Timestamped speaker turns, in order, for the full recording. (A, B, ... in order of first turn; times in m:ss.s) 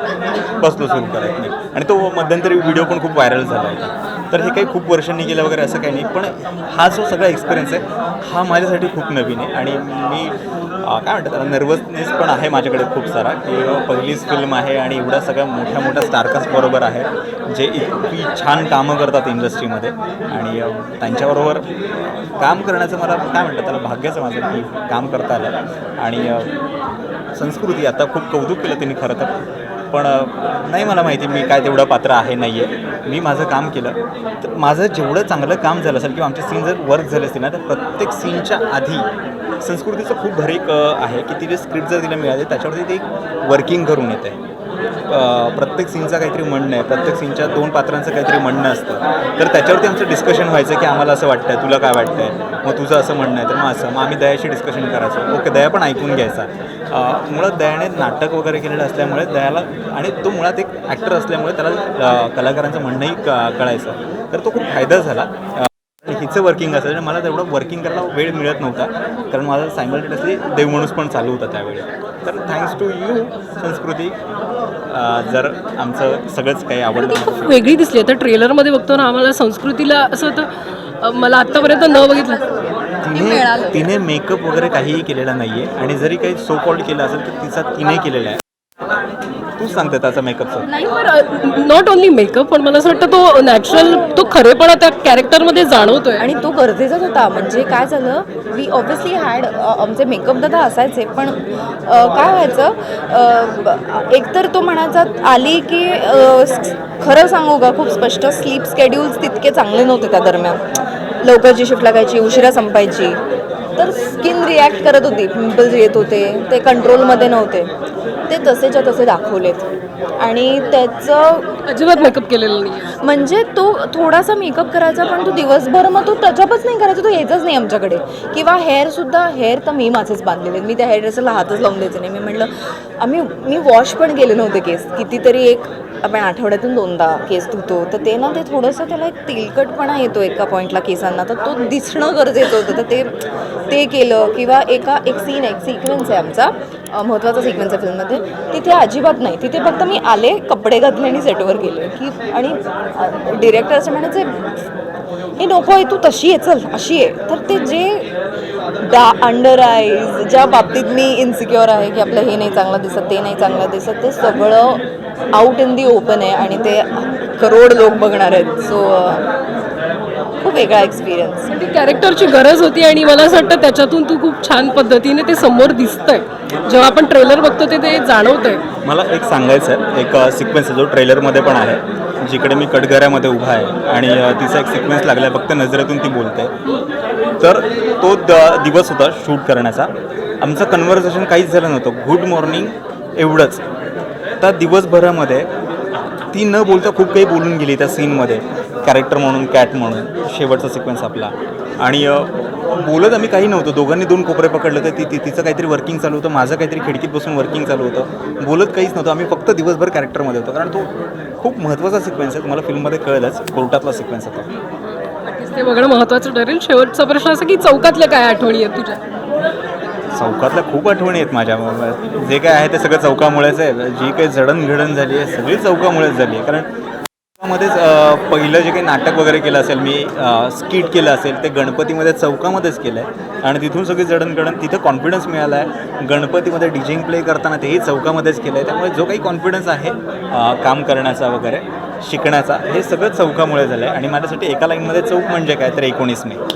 0:00.6-0:26.5 A
0:27.4-0:29.3 A
0:29.9-0:39.1 A
0:39.6-0:44.4 A
0:45.1-1:14.2 A
1:14.9-1:17.6 A
1:16.9-1:20.5 B
1:21.0-1:22.4 B
1:23.0-1:28.4 A
1:23.1-1:23.9 C
1:29.6-1:30.7 A
1:30.7-1:30.9 C
1:30.7-1:36.3 B
1:33.7-1:34.4 C
1:36.2-1:50.6 C
1:51.2-1:53.2 C
1:53.8-1:57.7 C
1:58.3-1:59.7 C
2:00.2-2:01.6 C
2:01.7-2:03.0 B
2:03.0-2:23.2 C
2:23.7-2:34.4 C
2:35.4-2:38.1 C
2:38.8-2:44.8 C
2:45.4-2:49.3 C
2:50.4-2:51.4 C
2:51.5-2:58.6 B
2:58.8-3:06.6 A
3:07.4-3:13.6 A
3:14.4-3:15.5 A
3:16.3-3:34.5 A
3:35.2-3:39.0 B
3:40.1-3:46.7 A
3:47.4-4:06.4 A